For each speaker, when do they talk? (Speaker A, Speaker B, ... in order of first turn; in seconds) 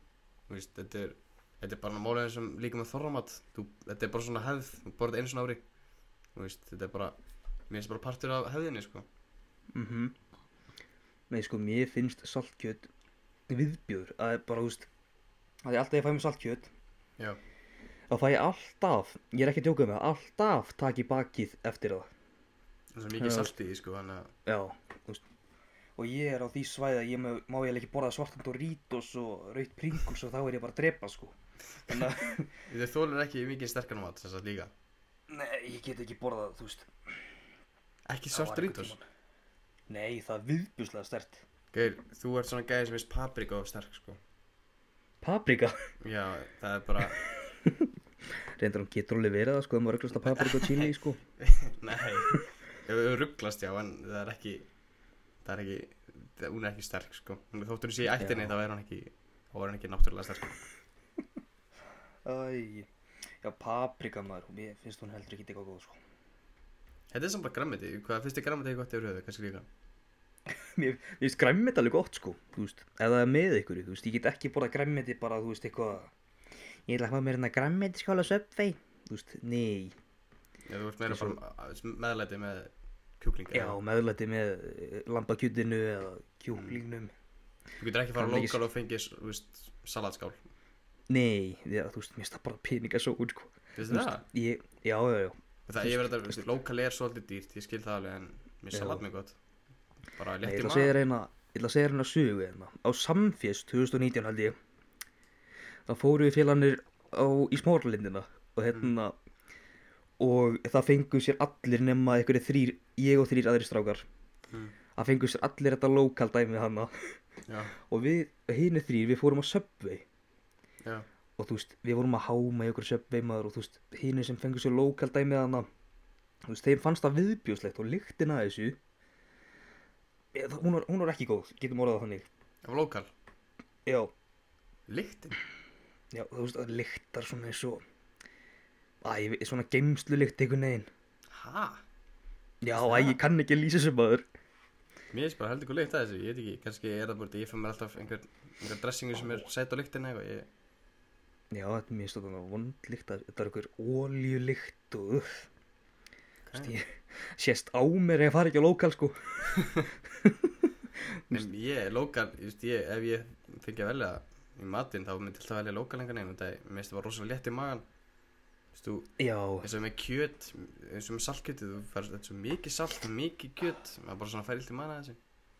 Speaker A: 0.5-5.6, 6.3-7.2, 7.7-9.1, 22.9-24.3, 32.7-34.7, 38.1-39.0, 41.7-44.2, 46.0-47.2, 50.2-54.7, 55.4-60.6, 67.1-69.7, 80.7-83.8, 86.5-86.8, 87.8-90.5, 93.8-94.2, 95.7-99.4, 100.2-101.0, 114.5-114.8, 117.5-117.8, 132.6-133.1, 134.9-135.4, 141.3-141.8, 142.7-143.2, 145.1-150.5, 156.4-156.7, 159.6-159.8, 161.3-167.8, 168.7-175.2
Speaker B: 9.7-10.2, 11.3-12.9, 13.5-14.9, 15.7-16.7, 18.1-22.1, 23.2-23.6, 24.5-25.2, 26.0-31.4, 31.9-32.5, 35.3-36.9, 38.3-39.0, 39.9-41.4, 45.2-45.8, 47.0-47.9, 48.6-51.2, 58.2-58.6, 62.2-62.9, 63.4-66.0, 70.5-76.1, 76.9-80.0, 81.1-81.4, 83.5-87.1, 88.2-88.6, 91.1-96.4, 98.7-99.0, 100.4-104.6, 105.9-109.2, 110.2-114.0, 115.0-117.2, 117.9-120.0, 121.4-125.7, 126.5-128.8, 130.3-132.3, 136.1-137.8, 139.0-140.9, 142.6-144.2, 149.2-149.4, 151.5-155.5, 156.5-160.5, 161.1-161.5, 169.2-169.7